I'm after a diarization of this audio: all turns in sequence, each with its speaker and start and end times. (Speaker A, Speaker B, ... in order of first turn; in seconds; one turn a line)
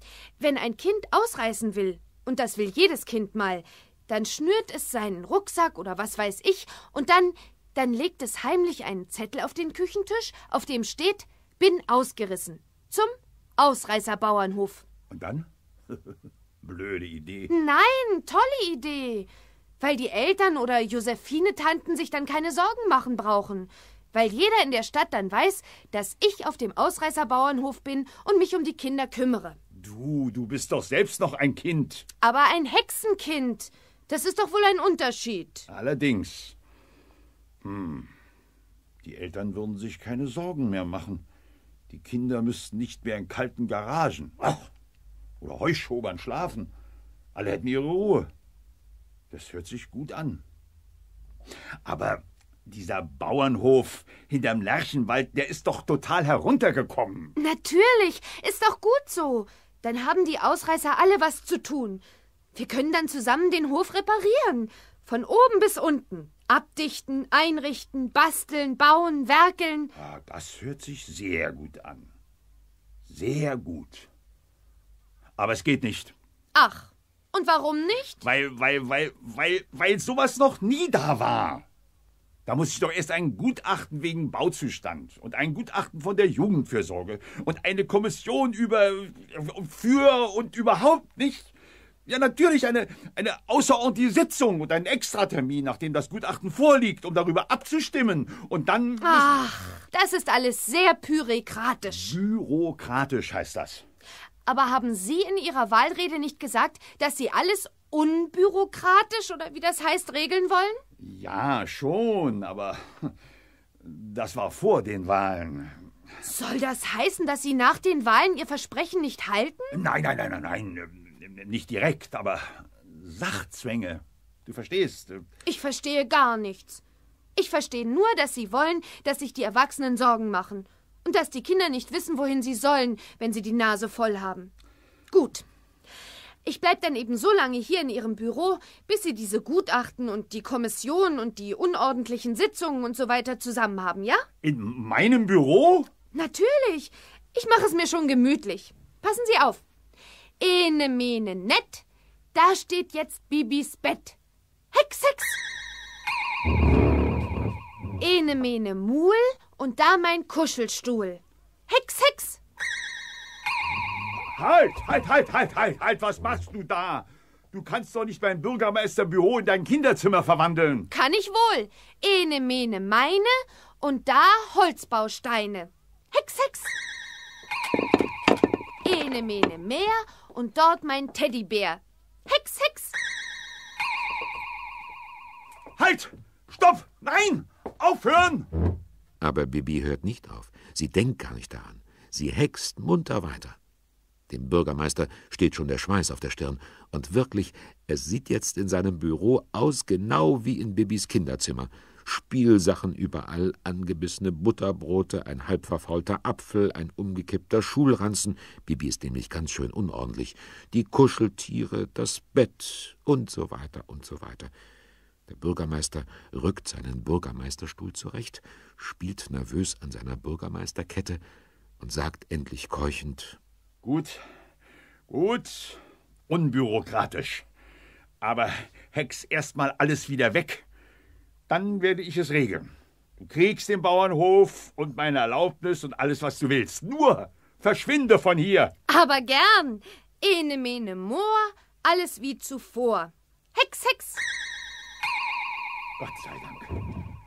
Speaker A: 0.4-14.8
Speaker B: 15.1-16.0
Speaker B: 16.6-17.5
Speaker A: 17.5-19.3
Speaker A: 19.8-29.6
Speaker B: 29.7-32.1
Speaker A: 32.2-35.7
Speaker B: 35.7-36.5
Speaker B: 37.6-38.1
Speaker B: 39.0-41.2
Speaker B: 41.9-44.7
Speaker B: 45.4-46.7
Speaker B: 47.3-48.3
Speaker B: 49.3-50.4
Speaker B: 51.8-57.3
Speaker A: 57.4-62.0
Speaker A: 62.5-69.9
Speaker B: 70.0-72.1
Speaker B: 73.1-74.1
Speaker B: 75.4-76.1
Speaker A: 76.5-78.2
Speaker B: 78.2-81.7
Speaker B: 82.5-91.5
Speaker B: 92.1-99.4
Speaker A: 99.0-102.2
Speaker B: 101.9-103.8
Speaker A: 104.5-110.8
Speaker B: 111.0-113.1
Speaker B: 113.8-115.8
Speaker A: 116.2-119.8
Speaker B: 119.7-125.3
Speaker A: 125.5-126.8
Speaker A: 127.4-134.5
Speaker A: 135.1-135.4
Speaker A: 136.4-144.3
Speaker B: 144.4-145.9
Speaker A: 146.1-149.6
Speaker A: 150.4-154.2
Speaker A: 154.7-155.4
Speaker A: 158.0-162.4
Speaker B: 164.3-170.9
Speaker A: 170.9-176.7
Speaker A: 178.8-182.9
Speaker B: 185.8-188.5
Speaker C: 189.2-193.6
Speaker C: 194.3-214.5
Speaker C: 215.3-221.2
Speaker C: 221.8-223.4
Speaker B: 223.8-224.2
Speaker B: 225.1-227.5
Speaker B: 228.2-230.7
Speaker B: 231.5-238.7
Speaker A: 238.9-244.2
Speaker B: 246.0-246.8